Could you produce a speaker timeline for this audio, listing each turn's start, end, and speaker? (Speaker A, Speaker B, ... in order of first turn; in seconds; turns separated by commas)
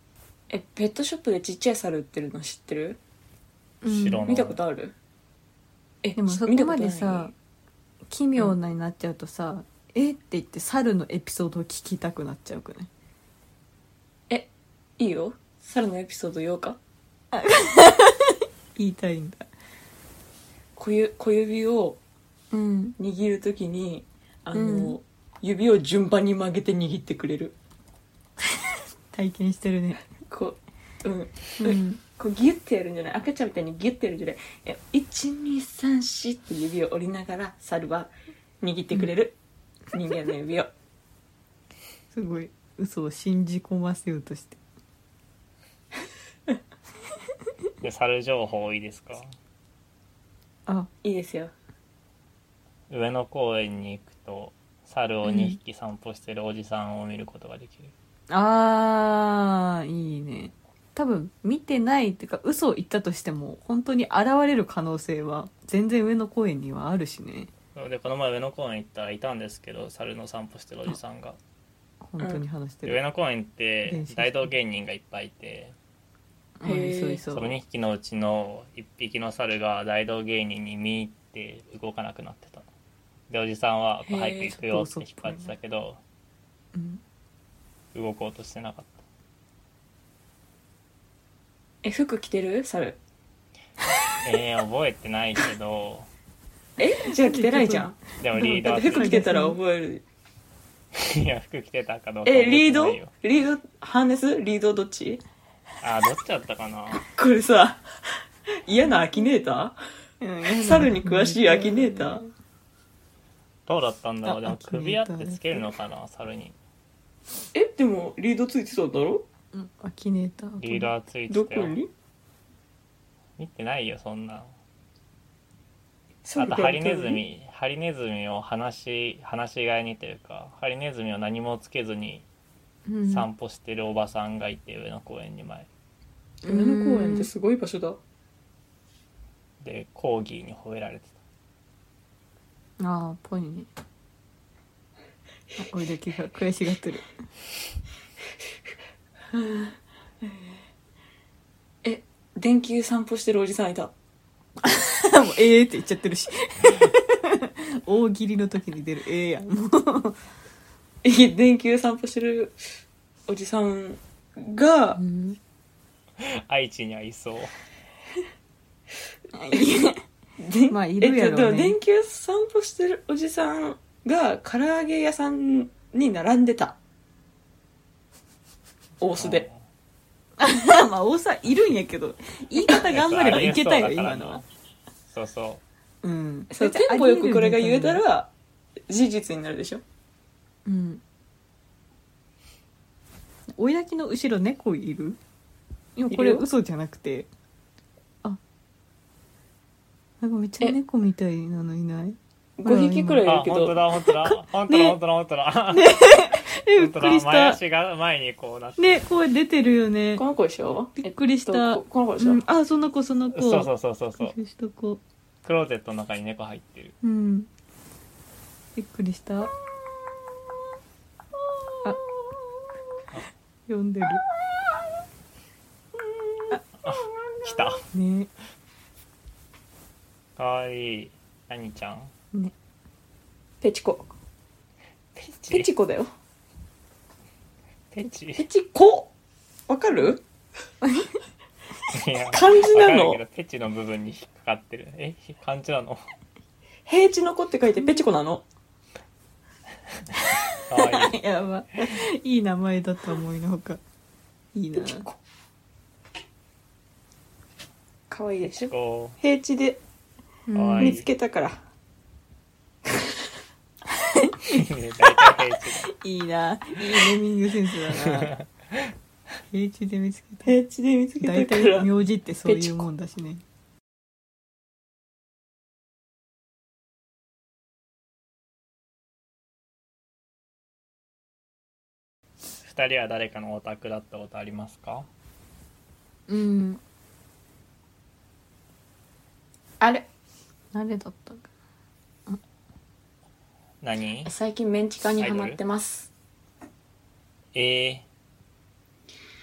Speaker A: 0.5-3.0, Speaker B: 3.8-4.3, Speaker C: 3.9-4.6, Speaker A: 4.3-5.0, Speaker A: 6.0-7.3, Speaker B: 6.2-7.3, Speaker B: 8.1-12.9, Speaker A: 14.3-16.8, Speaker B: 17.3-19.5, Speaker A: 20.8-22.0, Speaker B: 22.5-22.9, Speaker A: 23.0-27.6, Speaker B: 24.5-25.0, Speaker B: 29.1-30.0, Speaker A: 30.3-39.4, Speaker B: 31.6-32.0, Speaker A: 39.9-40.7, Speaker B: 42.1-44.6, Speaker C: 47.8-49.3, Speaker A: 51.0-51.5, Speaker C: 52.9-57.9, Speaker B: 55.2-55.6, Speaker B: 58.3-67.5, Speaker C: 67.8-71.4, Speaker B: 72.0-73.0, Speaker C: 72.9-75.8, Speaker B: 73.9-74.5, Speaker B: 76.6-77.6, Speaker A: 76.7-77.2, Speaker C: 77.3-82.7, Speaker C: 83.3-86.0, Speaker A: 84.1-84.5, Speaker B: 84.5-85.5, Speaker B: 86.7-87.0, Speaker C: 87.9-89.0, Speaker A: 91.8-93.0, Speaker C: 94.2-96.1, Speaker A: 96.8-100.0, Speaker B: 97.2-99.6, Speaker C: 98.2-99.2, Speaker C: 100.9-103.1, Speaker A: 102.2-105.2, Speaker C: 105.8-107.0, Speaker A: 107.0-107.8, Speaker A: 108.7-109.8, Speaker B: 110.2-112.3, Speaker A: 110.5-112.2, Speaker C: 113.7-116.6, Speaker B: 114.2-115.7, Speaker A: 117.5-119.3, Speaker B: 119.5-120.9, Speaker C: 120.6-121.8, Speaker A: 121.3-121.9, Speaker C: 123.4-124.5, Speaker A: 126.2-127.2, Speaker C: 126.4-132.2, Speaker B: 132.9-133.3, Speaker C: 133.1-135.7, Speaker B: 136.4-137.3, Speaker A: 136.5-138.0, Speaker C: 139.6-141.2, Speaker B: 142.8-143.7, Speaker B: 145.6-147.1, Speaker A: 149.3-150.5, Speaker A: 151.8-153.9, Speaker B: 154.6-160.2, Speaker A: 161.0-162.6, Speaker A: 163.3-165.0, Speaker B: 165.0-165.4, Speaker C: 166.2-167.5, Speaker B: 169.3-170.0, Speaker A: 170.4-176.8, Speaker B: 170.7-171.8, Speaker A: 179.0-179.5, Speaker C: 179.2-179.6, Speaker B: 180.4-184.4, Speaker C: 182.9-184.5, Speaker C: 185.1-185.6, Speaker B: 186.0-188.0, Speaker A: 186.5-188.3, Speaker A: 188.9-189.8, Speaker B: 190.7-191.0, Speaker B: 193.6-195.2, Speaker B: 196.0-197.3, Speaker A: 196.1-196.4, Speaker B: 200.2-203.2, Speaker A: 202.6-203.8, Speaker C: 203.2-208.9, Speaker B: 204.1-205.0, Speaker B: 205.7-207.6, Speaker B: 208.8-210.2, Speaker A: 210.2-212.4, Speaker B: 211.0-215.0, Speaker C: 213.3-214.3, Speaker C: 215.4-216.9, Speaker B: 217.0-217.5, Speaker B: 218.8-219.5, Speaker B: 223.7-224.2, Speaker A: 226.0-227.6, Speaker C: 226.8-227.8, Speaker B: 227.9-228.3, Speaker C: 230.4-232.1, Speaker A: 233.6-234.1, Speaker C: 235.2-235.7, Speaker A: 235.4-236.1, Speaker C: 237.9-238.5, Speaker A: 238.4-239.1, Speaker A: 239.7-240.2, Speaker B: 240.8-241.2, Speaker C: 241.9-246.1, Speaker A: 242.2-243.2, Speaker A: 246.9-248.4, Speaker C: 250.7-251.2, Speaker B: 250.7-253.8, Speaker B: 254.6-255.1, Speaker A: 254.8-255.2, Speaker A: 258.1-259.8, Speaker C: 258.5-259.2, Speaker B: 260.5-261.0, Speaker C: 260.6-261.1, Speaker A: 260.8-261.6, Speaker B: 263.9-264.7, Speaker C: 264.5-265.9, Speaker B: 265.8-268.3, Speaker C: 268.0-268.9, Speaker B: 269.5-270.5, Speaker A: 270.4-271.9, Speaker B: 271.2-273.4, Speaker A: 272.4-272.9, Speaker C: 282.6-285.1, Speaker B: 286.3-286.8, Speaker A: 289.8-290.1, Speaker B: 290.7-291.5, Speaker C: 293.8-294.3, Speaker A: 294.2-296.1, Speaker C: 295.2-295.6, Speaker C: 297.5-298.1